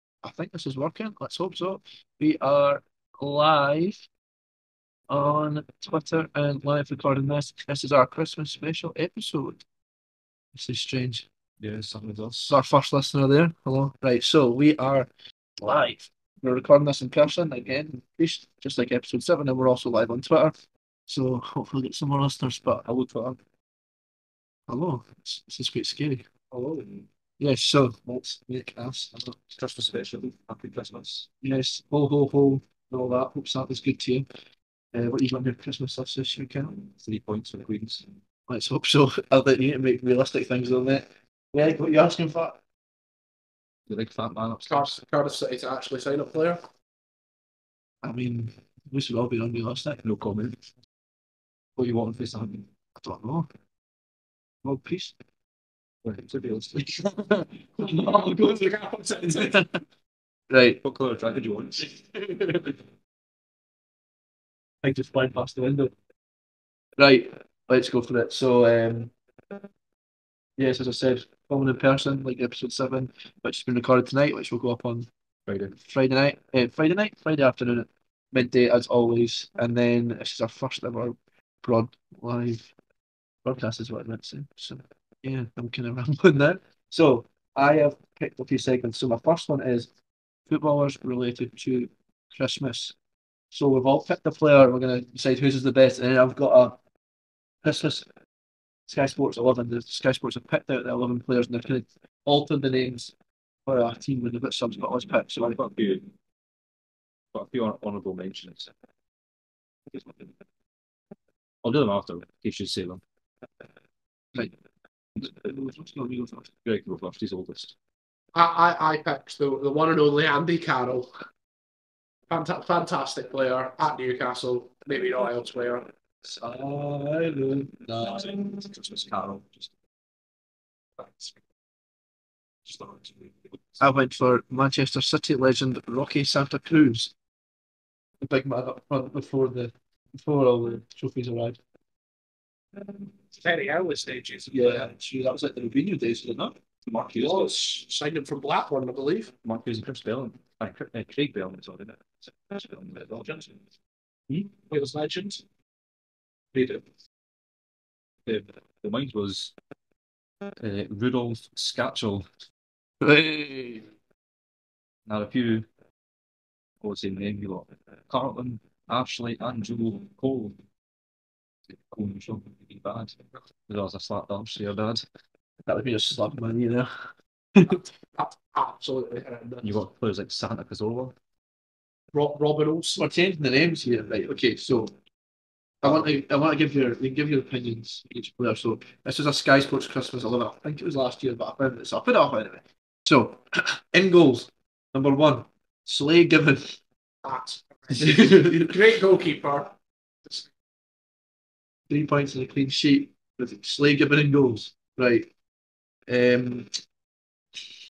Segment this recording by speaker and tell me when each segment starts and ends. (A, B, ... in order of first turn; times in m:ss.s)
0:00.2-0:04.1 A
0:05.1-0:09.6 A
0:10.5-0:11.3 A
0:11.6-0:12.6 B
0:12.4-0:20.5 A
0:21.1-0:22.8 A
0:22.8-0:23.4 B
0:24.7-0:26.3 A
0:27.4-0:29.4 A
0:29.5-0:31.3 B
0:31.4-0:34.2 A
0:34.9-0:36.8 A
0:37.0-0:38.1 B
0:38.5-0:42.6 A
0:43.9-0:44.9 B
0:44.6-0:46.6 C
0:48.0-0:50.0 A
0:50.0-0:50.6 B
0:51.8-0:52.6 B
0:53.0-0:53.5 A
0:54.6-0:55.1 A
0:56.0-0:56.8 B
0:56.8-0:59.7 A
0:57.8-0:59.6 C
1:00.5-1:00.8 A
1:00.8-1:01.9 B
1:02.1-1:02.7 A
1:04.8-1:05.9 A
1:07.0-1:09.1 A
1:10.6-1:15.1 A
1:15.4-1:15.7 B
1:15.7-1:22.7 A
1:23.4-1:29.9 A
1:30.5-1:32.9 A
1:33.5-1:36.8 A
1:37.6-1:38.0 A
1:38.9-1:43.1 A
1:43.6-1:45.6 A
1:45.4-1:46.1 B
1:47.3-1:48.7 B
1:49.9-1:50.3 B
1:51.6-1:53.0 B
1:55.2-1:56.5 A
1:56.6-1:57.7 B
1:58.3-2:01.1 C
2:02.3-2:05.9 C
2:06.3-2:08.3 A
2:08.0-2:09.7 B
2:11.0-2:11.4 B
2:12.6-2:13.8 B
2:13.8-2:17.1 A
2:18.2-2:21.6 A
2:23.4-2:24.9 C
2:24.5-2:26.5 A
2:26.9-2:27.5 B
2:27.1-2:29.3 C
2:29.4-2:33.6 B
2:34.3-2:34.6 B
2:34.7-2:35.4 C
2:36.5-2:36.8 B
2:38.2-2:39.5 B
2:40.6-2:42.2 B
2:43.0-2:43.9 A
2:45.0-2:45.7 B
2:46.8-2:50.6 B
2:51.7-2:53.2 B
2:53.7-2:55.0 B
2:55.6-2:56.9 A
2:57.7-2:59.8 C
2:59.6-3:01.1 B
3:02.1-3:03.0 C
3:03.0-3:04.9 A
3:05.8-3:16.8 A
3:17.2-3:19.7 C
3:17.9-3:18.8 A
3:21.9-3:25.3 A
3:26.1-3:26.7 A